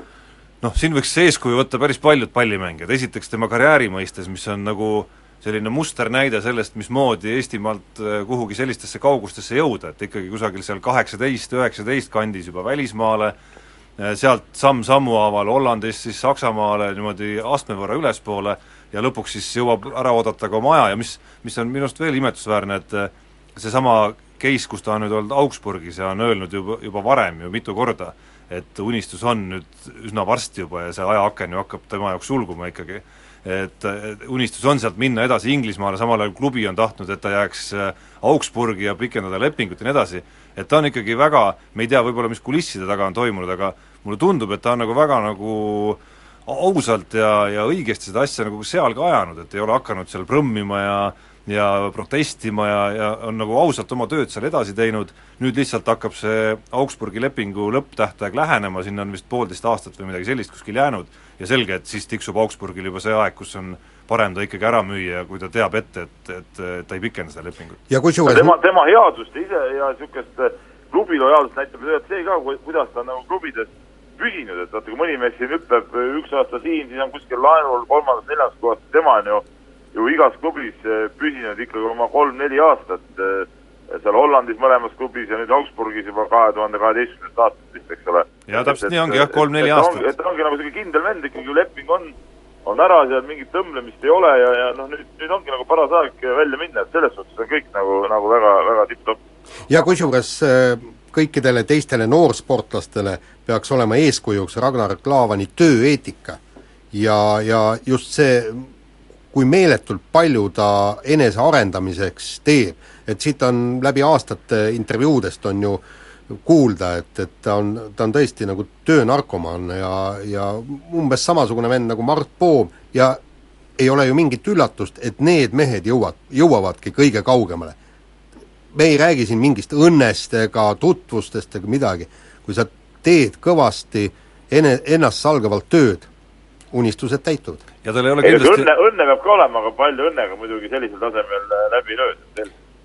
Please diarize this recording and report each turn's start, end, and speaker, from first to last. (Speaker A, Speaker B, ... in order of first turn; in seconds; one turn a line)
Speaker A: 0.6-13.3
Speaker A: 14.0-67.8
Speaker B: 67.9-68.5
Speaker C: 68.2-79.4
Speaker C: 79.9-99.2
Speaker A: 88.5-90.1
Speaker B: 99.7-106.4
Speaker B: 106.9-108.7
Speaker B: 109.3-123.2
Speaker B: 123.8-127.8
Speaker B: 128.7-136.1
Speaker B: 136.7-137.6
Speaker A: 137.8-138.7
Speaker C: 138.2-142.5